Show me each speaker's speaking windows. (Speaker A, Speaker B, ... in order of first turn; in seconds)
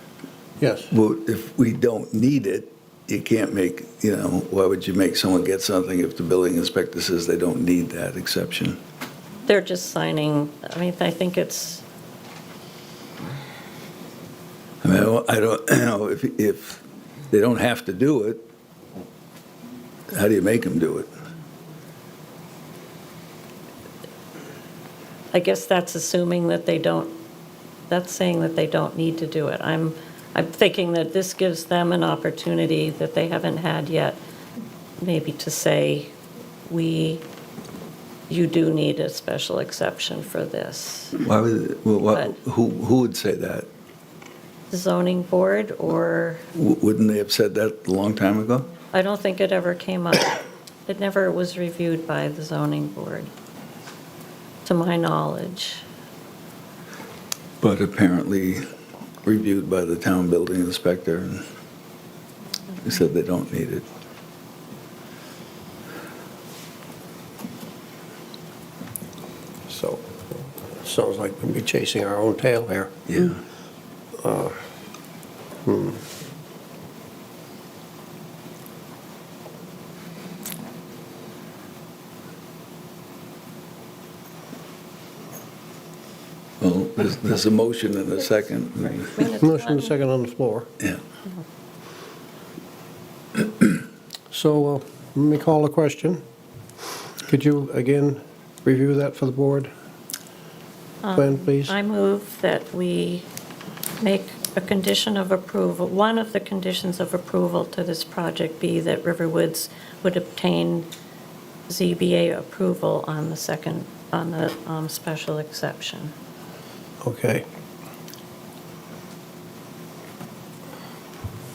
Speaker A: 0.6-0.9, 69.7-70.1, 70.8-73.0, 74.2-74.6, 75.7-76.0, 89.4-90.7, 94.3-96.2, 97.3-99.7, 101.2-101.8, 117.0-117.5
Speaker B: 0.9-8.8, 14.8-18.4, 20.1-21.1, 41.2-43.7, 46.5-48.7, 57.6-58.6, 59.2-61.4, 62.8-63.9, 73.1-73.4, 86.6-89.1
Speaker C: 9.5-11.8, 25.3-27.1, 27.9-34.2, 35.0-36.1, 36.7-37.2, 38.3-41.2, 44.7-46.5, 48.9-53.3, 54.6-55.8, 89.2-89.9, 101.0-103.3, 104.0-110.9, 111.7-116.1